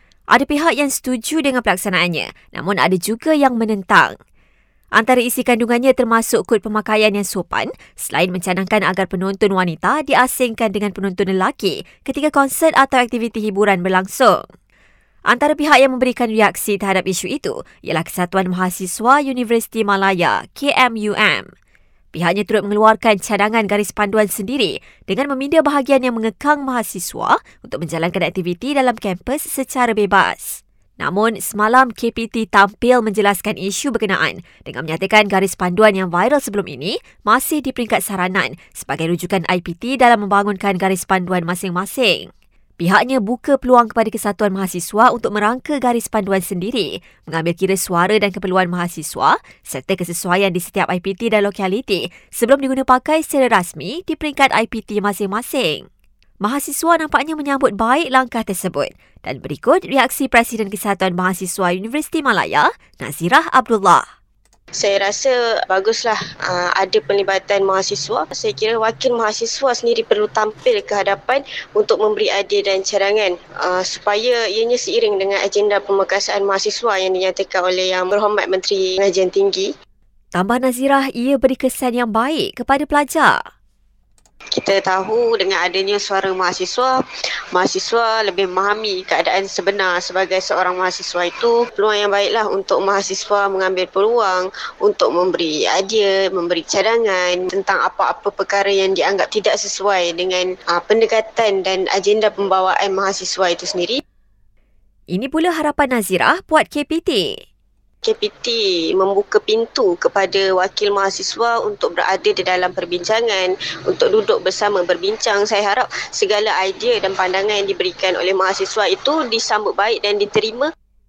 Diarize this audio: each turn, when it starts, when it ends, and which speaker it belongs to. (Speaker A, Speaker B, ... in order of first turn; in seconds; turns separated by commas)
Speaker A: 0.3-4.1, Speaker A: 5.0-14.4, Speaker A: 15.3-21.5, Speaker A: 22.1-42.3, Speaker A: 42.8-55.8, Speaker A: 56.4-64.0, Speaker B: 64.8-79.7, Speaker A: 80.3-83.3, Speaker B: 84.5-87.0, Speaker B: 87.5-104.0, Speaker A: 105.1-107.4, Speaker B: 108.0-120.7